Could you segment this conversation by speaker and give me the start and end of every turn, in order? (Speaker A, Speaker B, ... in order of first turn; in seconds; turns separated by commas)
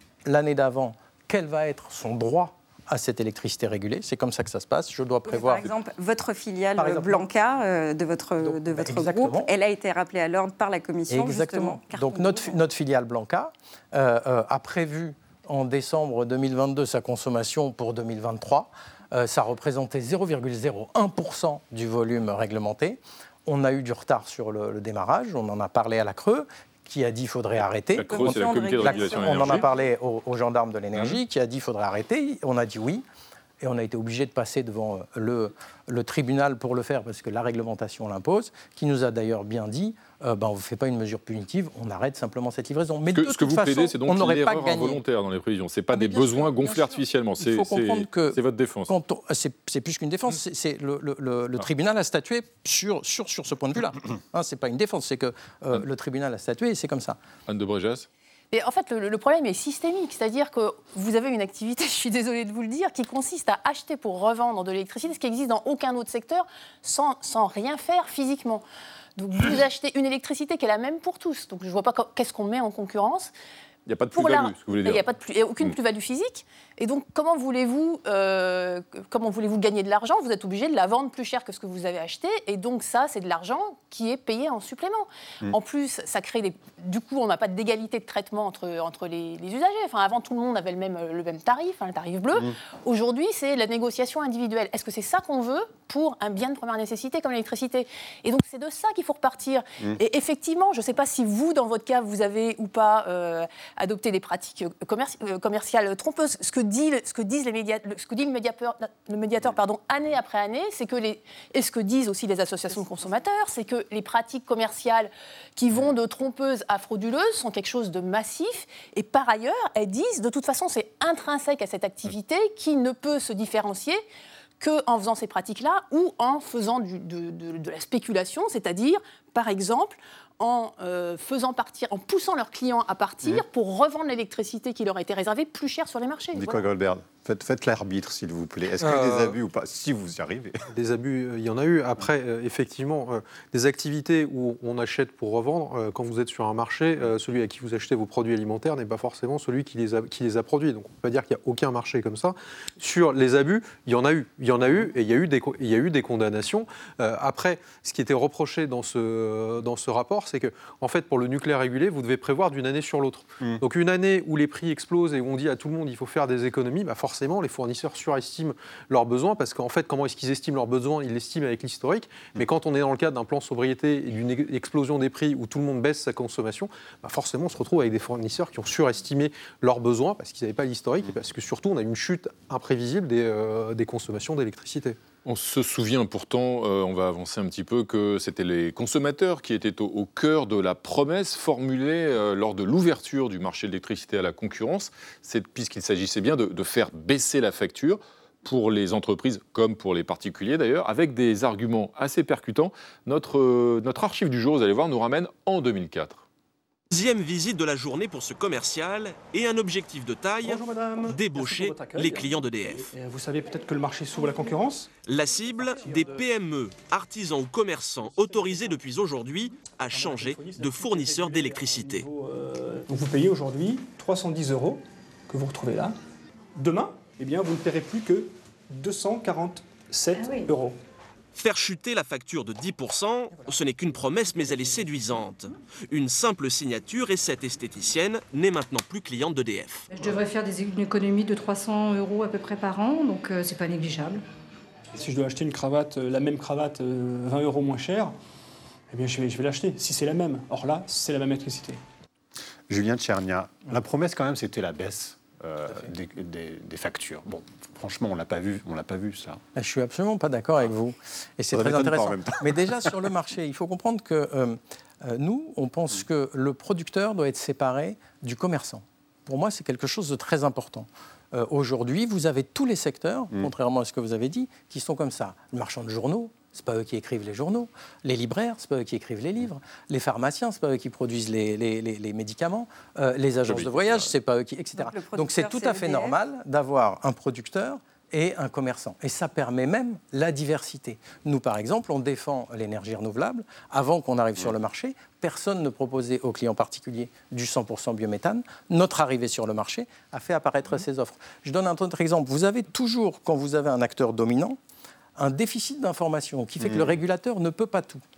Speaker A: 0.3-5.7, Speaker B: 5.3-12.6, Speaker A: 6.8-7.3, Speaker A: 8.4-9.5, Speaker A: 11.1-33.0, Speaker C: 27.9-29.7, Speaker B: 28.1-29.8, Speaker A: 33.6-45.0, Speaker C: 43.1-48.9, Speaker A: 45.9-57.2, Speaker C: 57.5-58.1, Speaker D: 58.5-68.6, Speaker D: 69.2-73.3, Speaker C: 73.9-75.0, Speaker D: 74.1-124.0, Speaker D: 124.6-136.7, Speaker E: 136.3-140.6, Speaker F: 138.8-139.4, Speaker F: 140.7-185.0, Speaker C: 185.2-206.2, Speaker G: 206.9-212.9, Speaker H: 210.4-215.0, Speaker G: 215.1-222.1, Speaker H: 215.8-216.2, Speaker H: 218.0-218.8, Speaker H: 219.7-226.0, Speaker H: 226.6-230.8, Speaker I: 230.2-230.5, Speaker G: 231.4-239.9, Speaker I: 239.9-244.2, Speaker H: 244.9-248.1, Speaker H: 248.9-251.8, Speaker E: 252.7-259.4, Speaker A: 259.6-304.6, Speaker E: 261.5-262.5, Speaker C: 283.5-284.1, Speaker B: 284.8-286.2, Speaker A: 305.2-308.0, Speaker E: 306.6-306.9